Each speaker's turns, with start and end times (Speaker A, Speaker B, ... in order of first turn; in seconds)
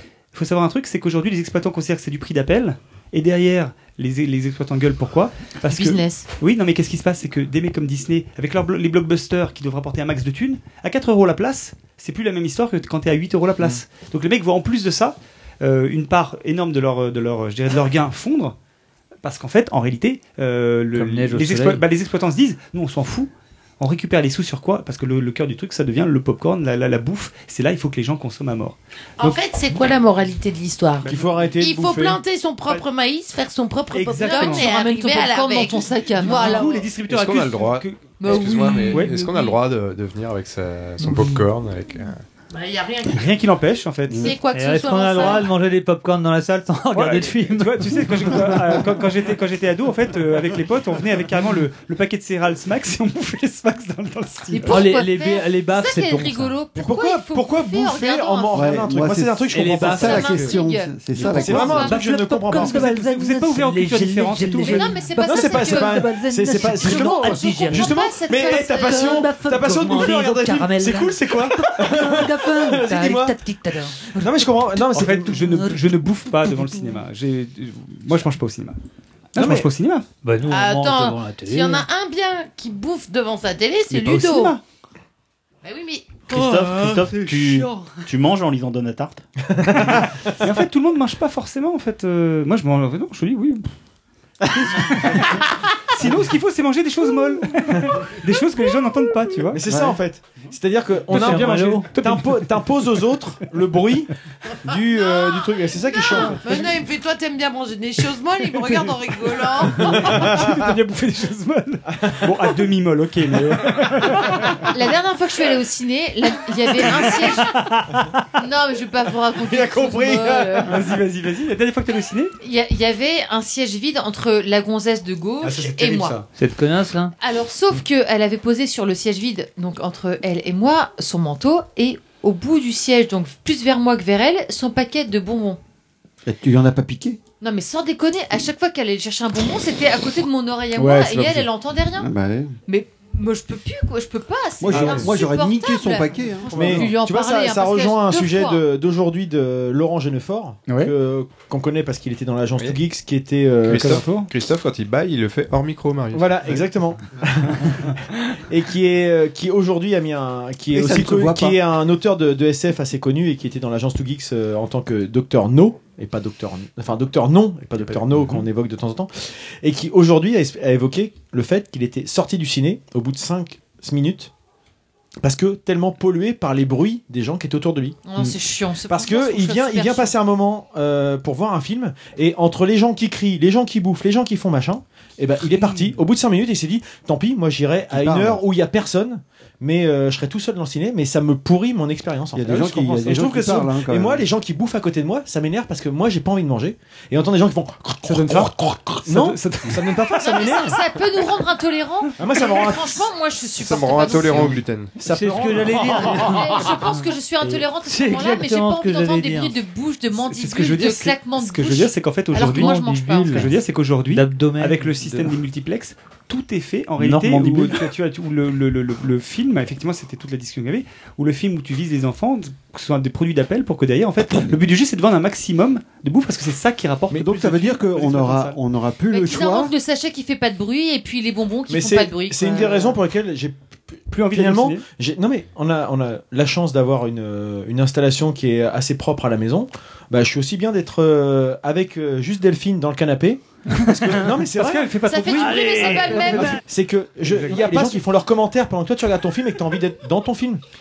Speaker A: 0.3-18.6, 19.2-29.4, 33.9-34.7, 36.2-39.5, 43.1-44.4, 46.9-54.8, 62.5-64.9, 74.9-78.8, 79.3-80.1, 83.9-84.6, 89.7-93.7, 94.5-99.7, 101.1-102.5, 109.8-114.6, 117.6-118.0, 120.7-122.3, 125.5-126.2, 140.8-141.5, 144.7-145.2, 146.6-146.8, 150.7-150.9, 153.7-154.3, 185.5-186.0, 198.1-200.5, 210.1-228.6, 234.1-234.8, 243.8-246.4, 247.3-247.9
Speaker B: 5.7-6.3, 34.3-36.7, 38.2-39.4, 54.5-58.9, 59.8-61.9, 64.6-66.1, 66.6-69.3, 114.7-117.5, 118.4-120.8, 122.4-126.2, 127.2-135.6, 137.4-142.1, 142.7-148.6, 178.1-180.1, 200.3-204.6, 205.9-213.5, 229.1-233.0, 245.1-246.6
Speaker C: 20.9-21.8, 44.5-48.8, 54.6-56.6, 59.5-60.4, 61.2-74.3, 75.4-76.8, 80.2-81.8, 86.5-87.9, 101.1-101.9, 126.3-127.1, 205.1-206.8, 207.8-209.6, 212.4-213.5, 214.1-215.2, 217.0-217.8, 245.7-246.2
Speaker D: 29.2-36.8, 42.5-43.4, 44.2-45.5, 80.5-84.6, 85.6-86.6, 105.0-110.1
Speaker E: 31.0-32.2, 56.8-60.5, 61.2-63.0, 65.2-73.4, 74.1-75.7, 79.4-79.7, 89.5-90.3, 99.5-104.1, 104.7-106.5, 110.0-110.5, 111.9-112.4, 119.4-120.7, 125.4-126.2, 146.5-154.0, 156.1-174.3, 175.2-178.0, 178.9-200.8, 202.2-203.1, 205.0-206.1, 231.7-233.6, 234.1-250.6
Speaker F: 37.1-42.2, 153.7-156.7, 203.4-204.9
Speaker G: 58.5-61.9, 136.2-137.2, 141.9-142.6, 144.6-146.7, 160.7-161.6, 187.9-188.4, 192.3-194.3, 227.1-229.8
Speaker H: 86.3-89.2